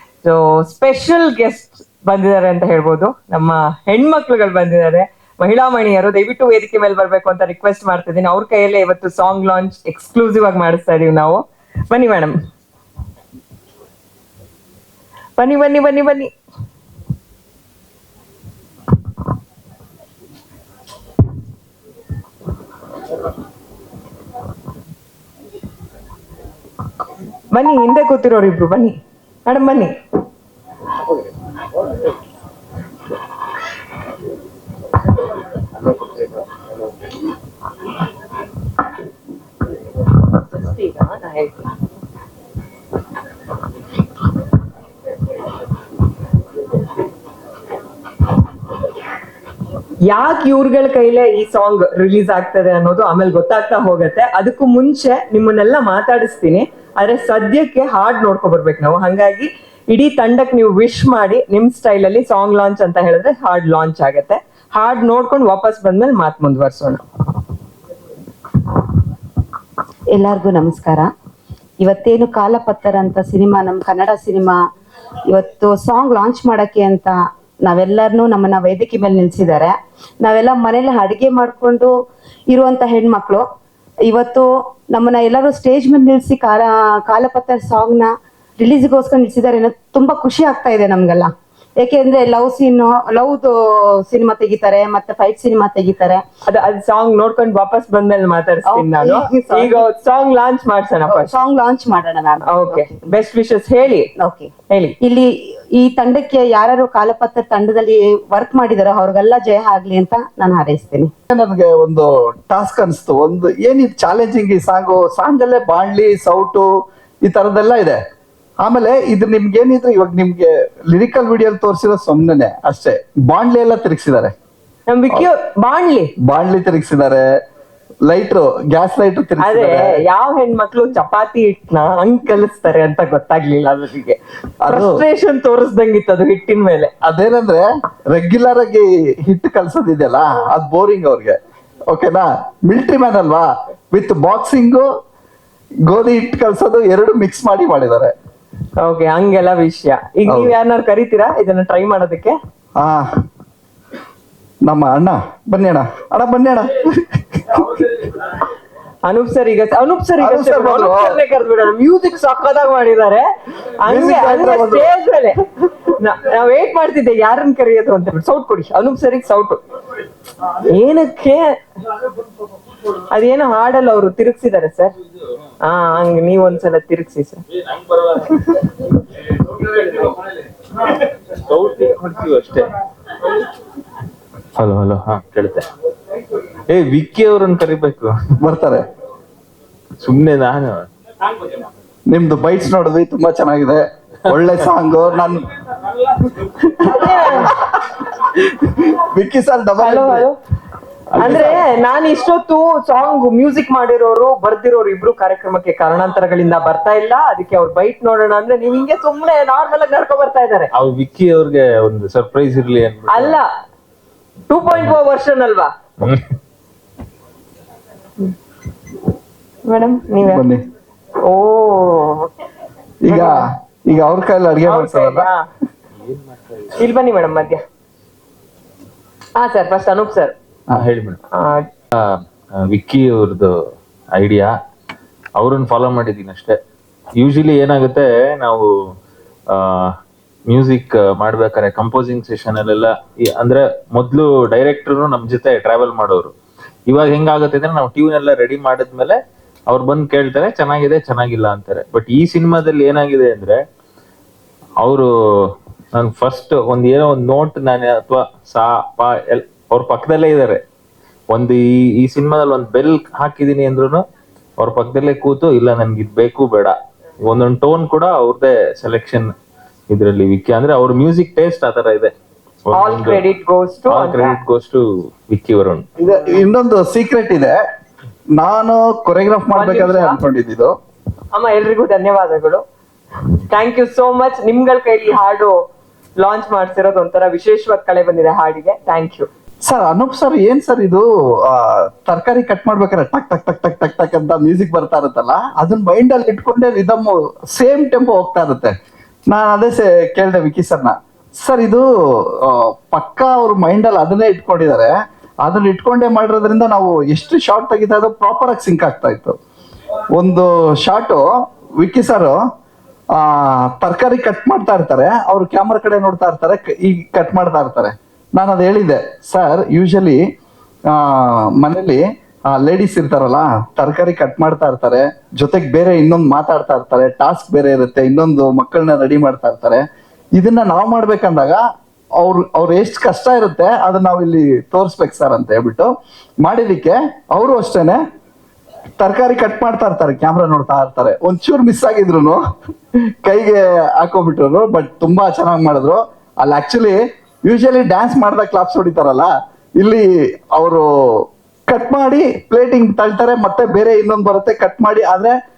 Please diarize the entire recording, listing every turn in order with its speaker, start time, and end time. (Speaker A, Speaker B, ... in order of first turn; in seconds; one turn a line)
Speaker A: 0.2-12.3
Speaker A: 15.4-16.3
Speaker A: 27.5-29.9
Speaker A: 40.4-41.7
Speaker A: 50.1-67.0
Speaker B: 70.1-71.1
Speaker B: 71.8-74.6
Speaker B: 75.3-81.9
Speaker B: 82.5-83.4
Speaker B: 84.1-96.2
Speaker A: 96.5-101.4
Speaker B: 98.7-99.9
Speaker B: 101.1-103.1
Speaker A: 102.5-104.1
Speaker B: 104.2-111.1
Speaker A: 104.7-105.0
Speaker C: 111.3-116.7
Speaker C: 117.2-118.0
Speaker C: 118.6-124.3
Speaker A: 124.9-126.1
Speaker C: 126.2-127.2
Speaker C: 128.1-130.0
Speaker A: 129.4-136.9
Speaker C: 134.6-135.0
Speaker C: 137.0-141.4
Speaker C: 141.9-144.9
Speaker C: 145.9-148.1
Speaker A: 148.8-152.4
Speaker C: 150.3-150.6
Speaker C: 152.8-153.1
Speaker C: 154.7-158.0
Speaker A: 159.1-163.3
Speaker C: 160.2-161.2
Speaker A: 163.8-165.4
Speaker C: 163.9-164.9
Speaker A: 165.9-169.6
Speaker A: 170.6-171.4
Speaker A: 173.1-174.9
Speaker A: 175.6-177.4
Speaker D: 177.9-178.3
Speaker D: 179.6-180.2
Speaker D: 180.9-182.7
Speaker D: 184.6-185.7
Speaker D: 186.7-188.1
Speaker C: 188.4-188.8
Speaker D: 190.0-190.9
Speaker C: 192.1-195.5
Speaker D: 194.3-194.7
Speaker A: 196.6-197.5
Speaker C: 197.0-197.7
Speaker C: 198.7-200.3
Speaker A: 199.8-200.4
Speaker C: 201.2-201.6
Speaker A: 201.2-210.7
Speaker D: 210.7-213.4
Speaker A: 213.1-213.5
Speaker A: 214.5-215.7
Speaker D: 214.7-215.0
Speaker A: 219.7-220.5
Speaker C: 220.2-220.6
Speaker A: 221.3-222.3
Speaker C: 223.0-225.3
Speaker A: 223.1-223.4
Speaker A: 224.7-225.4
Speaker D: 226.0-226.7
Speaker A: 226.7-227.6
Speaker A: 229.4-230.3
Speaker D: 230.7-231.2
Speaker A: 231.3-231.7
Speaker D: 231.9-233.5
Speaker D: 234.2-234.5
Speaker D: 235.4-236.6
Speaker D: 237.2-238.7
Speaker D: 239.5-239.9
Speaker D: 240.5-246.3
Speaker D: 246.9-253.6
Speaker D: 254.8-260.6
Speaker D: 261.3-264.0
Speaker D: 264.6-269.3
Speaker D: 269.9-272.1
Speaker D: 272.7-273.2
Speaker A: 272.7-274.4
Speaker D: 273.9-275.9
Speaker C: 276.0-277.6
Speaker C: 278.4-280.7
Speaker A: 279.5-280.2
Speaker A: 281.3-282.6
Speaker A: 283.5-285.5
Speaker A: 286.2-289.3
Speaker C: 289.7-298.7
Speaker C: 299.3-309.4
Speaker C: 310.2-311.2
Speaker C: 311.8-312.4
Speaker C: 313.1-320.2
Speaker C: 320.9-329.8
Speaker C: 330.4-331.6
Speaker C: 332.2-335.9
Speaker C: 336.4-338.0
Speaker C: 339.0-342.4
Speaker C: 343.2-355.3